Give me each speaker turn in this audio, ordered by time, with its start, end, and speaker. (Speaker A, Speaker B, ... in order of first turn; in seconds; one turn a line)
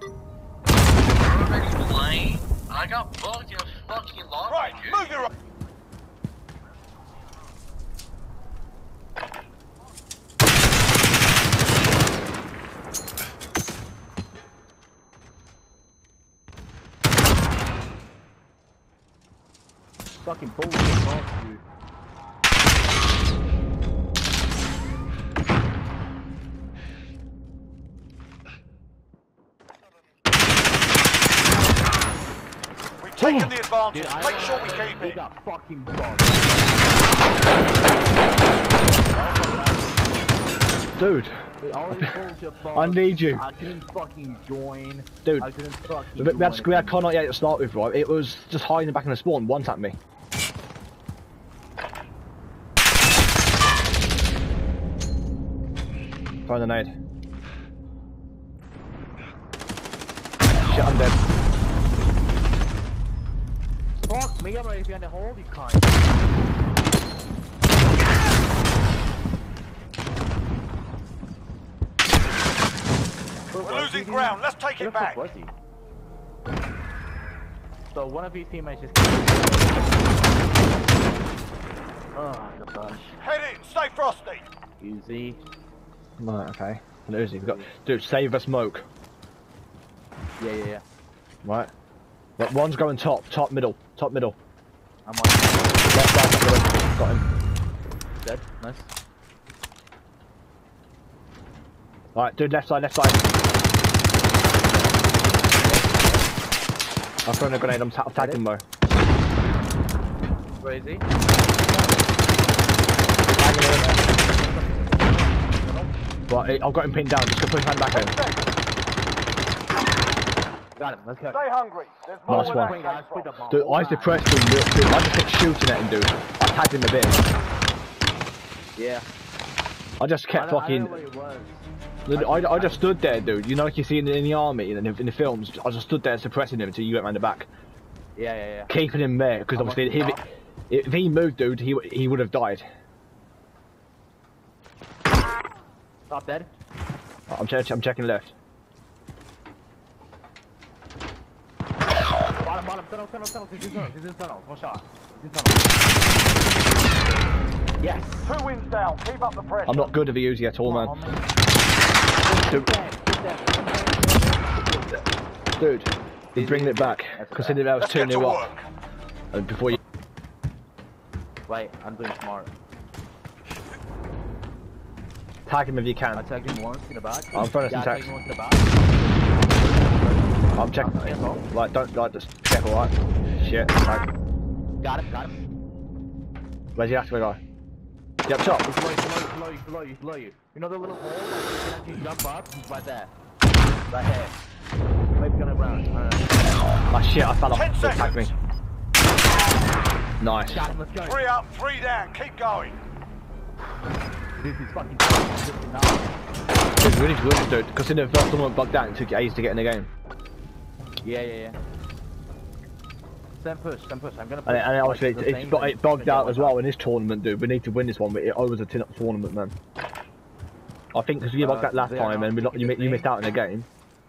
Speaker A: 1.1-5.3
Speaker B: 4.5-5.3
Speaker C: 20.1-21.6
Speaker B: 33.0-35.2
Speaker D: 33.2-33.5
Speaker C: 33.9-40.1
Speaker D: 41.0-41.4
Speaker C: 41.6-47.0
Speaker D: 42.7-43.5
Speaker D: 45.2-45.5
Speaker D: 46.2-50.0
Speaker D: 56.5-56.9
Speaker D: 60.6-61.2
Speaker C: 64.0-66.1
Speaker C: 73.5-75.5
Speaker B: 73.6-75.2
Speaker C: 77.9-80.1
Speaker C: 82.1-83.2
Speaker B: 83.2-84.5
Speaker C: 84.8-85.4
Speaker D: 86.2-88.8
Speaker C: 87.4-87.7
Speaker C: 90.4-90.8
Speaker D: 91.4-91.7
Speaker D: 92.4-94.4
Speaker C: 95.0-95.9
Speaker D: 95.9-97.2
Speaker C: 98.2-98.9
Speaker D: 102.1-103.3
Speaker C: 105.2-106.3
Speaker D: 107.2-108.6
Speaker C: 108.2-108.4
Speaker C: 110.6-111.0
Speaker C: 111.7-112.0
Speaker D: 113.4-114.0
Speaker C: 113.5-115.9
Speaker D: 116.3-118.2
Speaker B: 117.9-118.5
Speaker C: 120.8-121.4
Speaker B: 121.3-123.3
Speaker D: 122.3-122.8
Speaker C: 122.3-124.2
Speaker D: 123.5-127.2
Speaker C: 128.8-129.1
Speaker D: 130.0-131.0
Speaker C: 130.3-133.0
Speaker D: 132.1-137.5
Speaker C: 138.2-138.7
Speaker D: 138.7-142.7
Speaker C: 139.5-140.2
Speaker C: 146.1-146.5
Speaker D: 147.3-148.3
Speaker C: 152.4-155.9
Speaker C: 157.8-158.3
Speaker B: 158.2-160.0
Speaker D: 159.7-160.9
Speaker C: 160.6-161.2
Speaker C: 162.2-165.0
Speaker D: 165.6-168.5
Speaker C: 166.3-167.7
Speaker B: 167.8-168.6
Speaker D: 169.3-169.8
Speaker C: 171.5-172.5
Speaker D: 175.4-176.2
Speaker C: 176.1-181.4
Speaker D: 177.3-178.1
Speaker D: 180.5-184.1
Speaker C: 184.8-185.4
Speaker D: 186.8-187.4
Speaker D: 188.3-188.7
Speaker C: 188.6-193.1
Speaker C: 193.9-194.4
Speaker C: 195.1-196.6
Speaker D: 196.9-198.3
Speaker B: 197.5-198.3
Speaker D: 200.2-200.7
Speaker C: 200.5-201.2
Speaker B: 201.0-202.8
Speaker C: 204.4-206.1
Speaker D: 206.7-209.9
Speaker C: 211.0-211.6
Speaker C: 213.4-216.6
Speaker D: 214.4-219.5
Speaker D: 220.9-223.7
Speaker C: 221.4-223.1